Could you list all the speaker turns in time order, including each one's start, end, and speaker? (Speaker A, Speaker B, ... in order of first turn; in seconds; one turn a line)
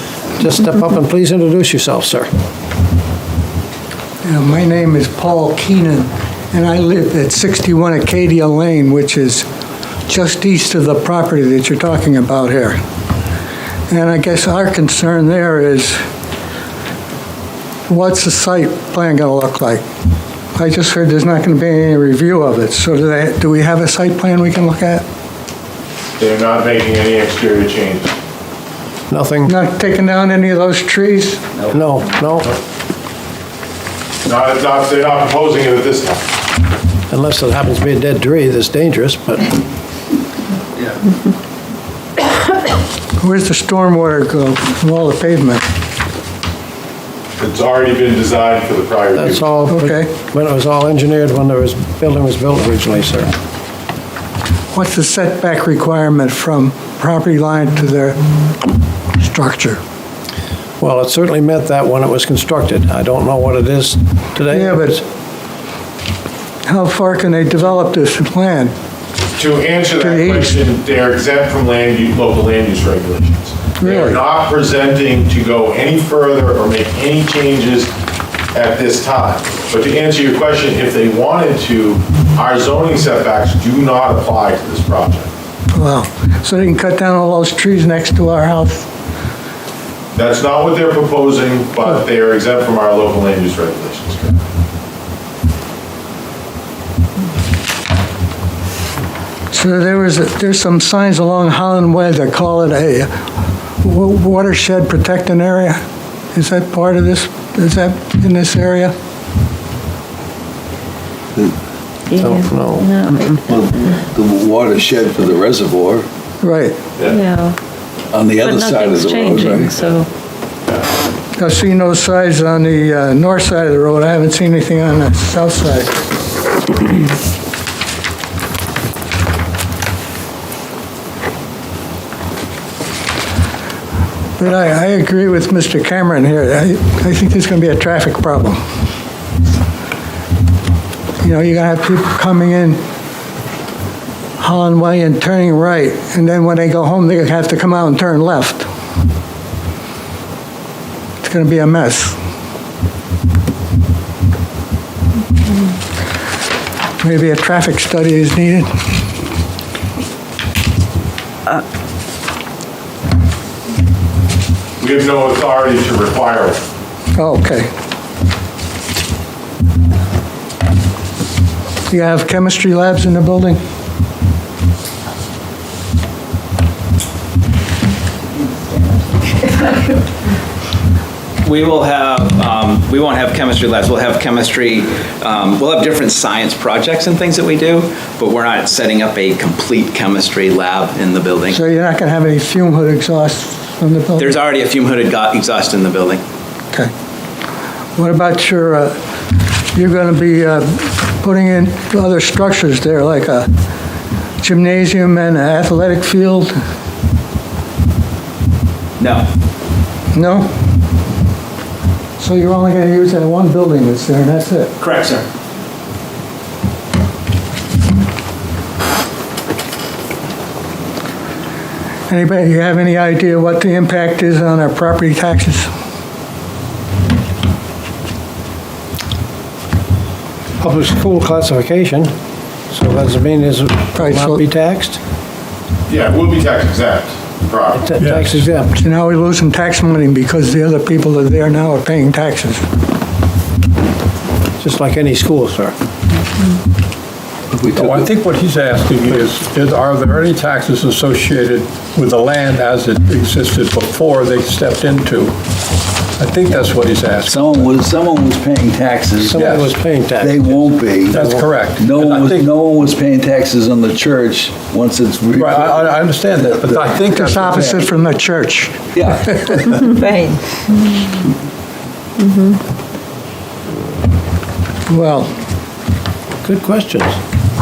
Speaker A: 0.4-2.3
Speaker B: 4.2-9.5
Speaker B: 10.1-12.8
Speaker B: 13.9-16.0
Speaker B: 17.9-19.8
Speaker B: 20.6-25.0
Speaker C: 26.2-28.1
Speaker A: 29.1-29.5
Speaker B: 29.5-31.5
Speaker A: 31.7-32.5
Speaker C: 34.2-36.3
Speaker A: 37.1-39.5
Speaker B: 43.2-45.6
Speaker C: 47.4-49.5
Speaker A: 49.1-53.3
Speaker B: 49.7-50.1
Speaker B: 54.7-58.2
Speaker B: 59.2-59.8
Speaker A: 60.8-65.0
Speaker B: 64.5-65.0
Speaker B: 66.7-68.7
Speaker C: 69.4-77.9
Speaker B: 70.0-70.6
Speaker B: 73.8-74.2
Speaker C: 78.5-85.3
Speaker B: 85.7-88.9
Speaker C: 90.1-94.4
Speaker B: 99.5-103.1
Speaker B: 103.8-105.8
Speaker B: 106.3-108.9
Speaker D: 112.1-114.0
Speaker A: 112.2-112.8
Speaker E: 113.5-116.1
Speaker B: 116.4-116.8
Speaker D: 117.1-117.6
Speaker E: 118.1-119.7
Speaker D: 118.3-120.1
Speaker B: 121.4-126.0
Speaker B: 134.4-138.6
Speaker B: 141.2-142.8
Speaker B: 144.4-148.7
Speaker B: 151.2-152.2
Speaker B: 157.0-158.7
Speaker C: 164.8-166.6
Speaker B: 167.2-167.7
Speaker B: 171.9-173.6
Speaker F: 181.4-191.6
Speaker B: 191.5-194.3
Speaker F: 194.2-196.2
Speaker B: 198.0-198.9
Speaker B: 199.7-203.5
Speaker B: 204.4-206.5
Speaker F: 209.0-209.3
Speaker B: 210.1-210.5
Speaker B: 212.2-214.7
Speaker F: 214.8-215.3
Speaker B: 222.1-225.7
Speaker A: 230.6-232.1
Speaker A: 232.7-235.0
Speaker B: 233.9-234.4
Speaker C: 235.9-238.0
Speaker A: 237.8-238.7
Speaker G: 238.0-238.5
Speaker B: 238.8-242.6
Speaker A: 244.6-245.8
Speaker E: 247.5-248.1
Speaker G: 247.7-255.4
Speaker G: 256.2-257.9
Speaker E: 257.2-259.5
Speaker A: 259.2-261.4
Speaker G: 259.3-259.8
Speaker E: 260.2-265.9
Speaker G: 261.1-262.5
Speaker G: 265.4-267.9
Speaker E: 266.6-267.0
Speaker B: 267.1-268.8
Speaker E: 268.9-269.7
Speaker B: 274.9-275.3
Speaker A: 276.4-277.2